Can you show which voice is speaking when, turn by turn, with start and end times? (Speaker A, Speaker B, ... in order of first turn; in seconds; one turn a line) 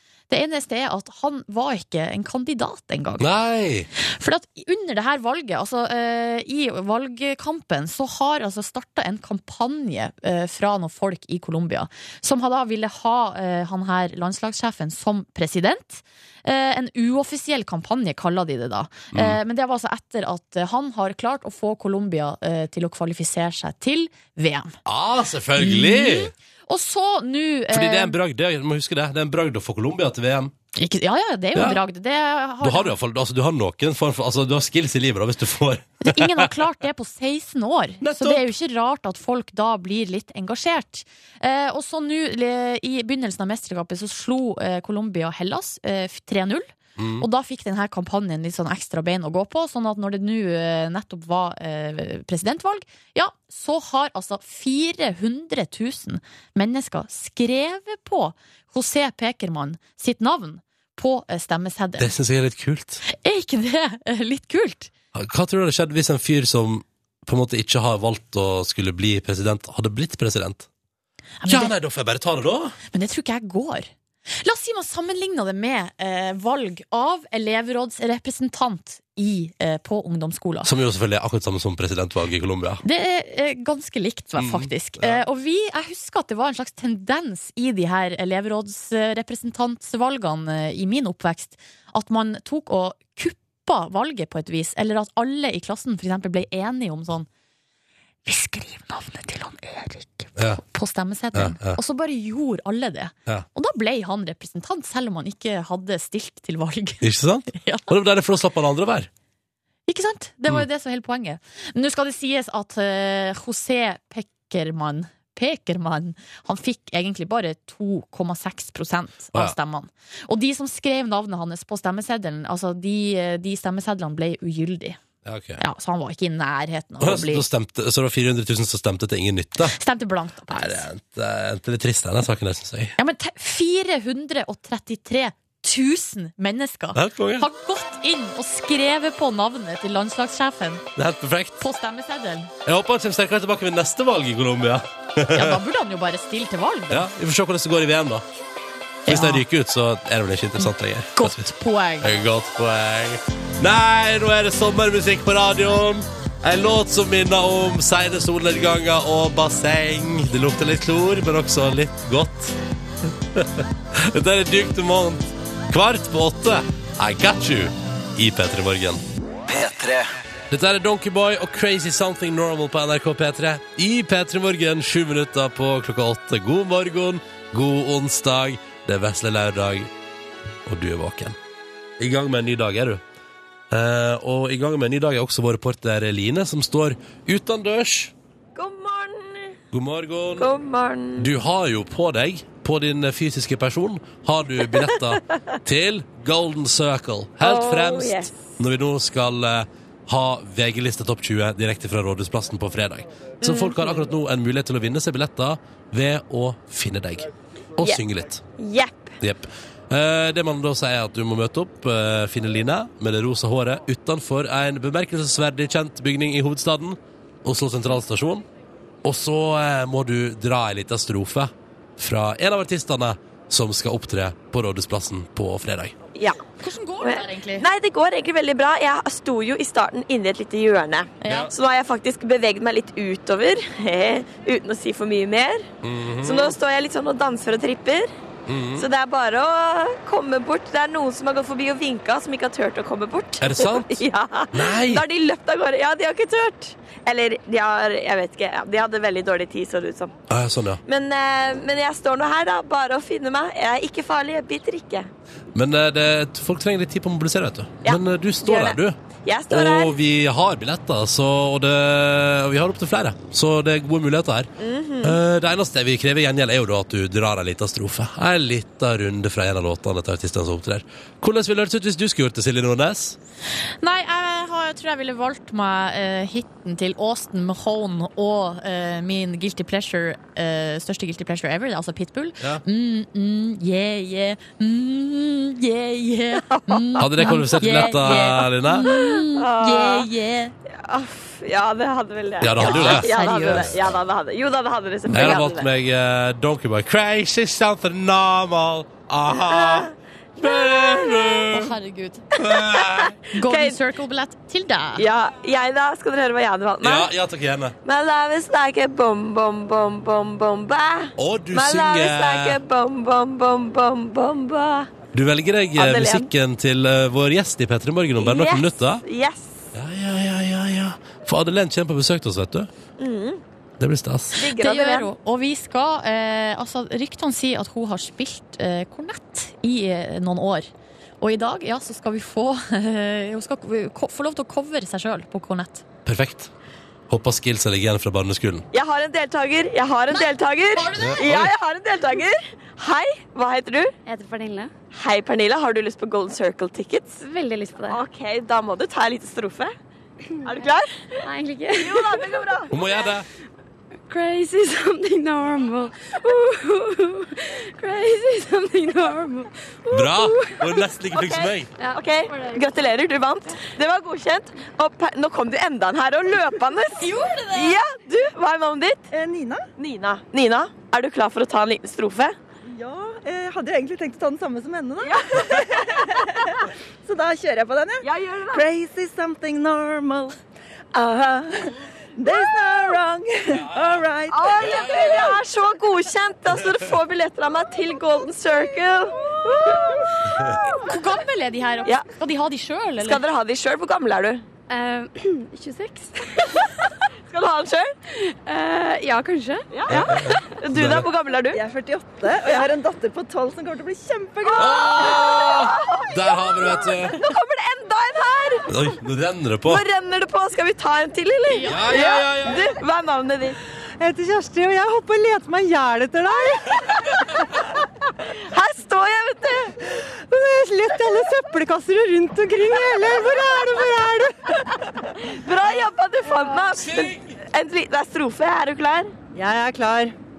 Speaker A: 0.3-3.3
Speaker B: 3.2-3.9
Speaker A: 4.0-24.8
Speaker B: 19.1-19.4
Speaker B: 24.9-26.3
Speaker A: 25.6-28.2
Speaker B: 27.7-30.5
Speaker A: 30.8-33.0
Speaker B: 31.6-31.8
Speaker B: 32.6-36.5
Speaker A: 36.0-62.1
Speaker B: 38.0-38.5
Speaker B: 47.0-47.3
Speaker B: 62.0-63.0
Speaker A: 63.1-64.9
Speaker B: 65.1-70.7
Speaker A: 71.4-71.7
Speaker B: 71.5-72.8
Speaker A: 72.9-73.9
Speaker A: 74.4-80.7
Speaker B: 80.6-82.8
Speaker A: 82.8-97.3
Speaker B: 84.4-85.2
Speaker A: 98.3-107.9
Speaker B: 101.3-101.8
Speaker B: 107.0-109.1
Speaker A: 109.9-125.0
Speaker B: 125.2-125.6
Speaker A: 125.6-127.5
Speaker B: 127.0-129.8
Speaker A: 129.7-130.9
Speaker B: 130.5-132.9
Speaker A: 133.0-140.8
Speaker B: 136.9-137.5
Speaker B: 140.9-141.6
Speaker A: 141.6-142.5
Speaker B: 142.6-145.6
Speaker A: 145.3-147.1
Speaker B: 146.9-148.2
Speaker A: 149.1-149.4
Speaker B: 149.1-151.5
Speaker A: 151.2-152.1
Speaker B: 152.0-179.9
Speaker B: 180.7-181.4
Speaker B: 182.0-183.0
Speaker B: 183.7-188.1
Speaker C: 188.6-189.6
Speaker B: 189.7-190.5
Speaker C: 190.4-191.3
Speaker B: 191.2-208.4
Speaker C: 197.4-198.5
Speaker C: 203.4-204.0
Speaker C: 208.6-209.2
Speaker B: 209.2-218.4
Speaker B: 219.0-225.9
Speaker C: 226.1-226.4
Speaker A: 226.6-227.7
Speaker C: 227.0-235.7
Speaker A: 231.2-231.5
Speaker B: 235.8-236.6
Speaker C: 236.2-238.1
Speaker B: 238.5-238.9
Speaker C: 238.8-250.2
Speaker B: 243.4-245.1
Speaker B: 250.3-250.8
Speaker C: 250.9-255.1
Speaker B: 255.5-259.0
Speaker C: 257.8-260.0
Speaker B: 259.5-264.5
Speaker C: 264.6-265.2
Speaker B: 265.0-273.2
Speaker A: 273.8-290.5
Speaker C: 286.5-287.1
Speaker B: 287.0-288.9
Speaker C: 288.9-290.1
Speaker C: 290.7-295.7
Speaker B: 292.4-293.8
Speaker A: 292.6-293.7
Speaker B: 295.1-301.7
Speaker C: 299.4-301.5
Speaker A: 301.5-302.2
Speaker B: 302.4-303.1
Speaker C: 302.4-303.8
Speaker A: 303.3-305.1
Speaker C: 305.0-307.1
Speaker B: 306.8-307.8
Speaker C: 307.9-314.9
Speaker B: 311.2-312.6
Speaker B: 315.1-319.0
Speaker C: 315.8-316.3
Speaker C: 318.2-319.7
Speaker B: 319.7-322.7
Speaker C: 323.0-323.4
Speaker B: 323.8-324.4
Speaker C: 324.4-325.1
Speaker A: 324.6-330.7
Speaker A: 331.2-335.9
Speaker B: 336.1-336.5
Speaker B: 337.1-338.6
Speaker C: 338.7-343.9
Speaker A: 340.8-341.3
Speaker B: 341.0-341.5
Speaker D: 344.1-344.7
Speaker C: 344.9-347.2
Speaker D: 347.2-348.0
Speaker C: 347.9-349.7
Speaker C: 350.4-351.2
Speaker D: 351.2-352.3
Speaker C: 351.8-352.8
Speaker B: 352.7-353.3
Speaker D: 354.1-360.6
Speaker B: 359.9-361.7
Speaker C: 361.1-369.1
Speaker D: 361.8-362.9
Speaker A: 367.1-367.6
Speaker D: 367.2-367.7
Speaker E: 369.1-369.6
Speaker C: 369.8-372.4
Speaker E: 372.6-380.4
Speaker C: 375.0-376.2
Speaker C: 378.0-378.7
Speaker E: 380.9-384.8
Speaker C: 384.3-390.1
Speaker B: 384.6-385.2
Speaker A: 390.7-393.2
Speaker C: 393.0-394.4
Speaker D: 394.7-396.6
Speaker C: 397.3-397.9
Speaker D: 398.2-399.7
Speaker C: 399.7-401.6
Speaker B: 399.9-401.1
Speaker E: 401.5-405.1
Speaker C: 402.4-402.7
Speaker C: 404.4-408.7
Speaker B: 404.6-407.2
Speaker B: 408.7-409.8
Speaker C: 409.7-413.6
Speaker A: 411.5-411.9
Speaker B: 411.6-412.7
Speaker E: 414.0-417.0
Speaker C: 416.3-417.2
Speaker C: 418.4-419.8
Speaker E: 420.1-424.7
Speaker C: 422.9-424.1
Speaker C: 425.2-429.1
Speaker B: 426.8-427.4
Speaker E: 429.3-430.1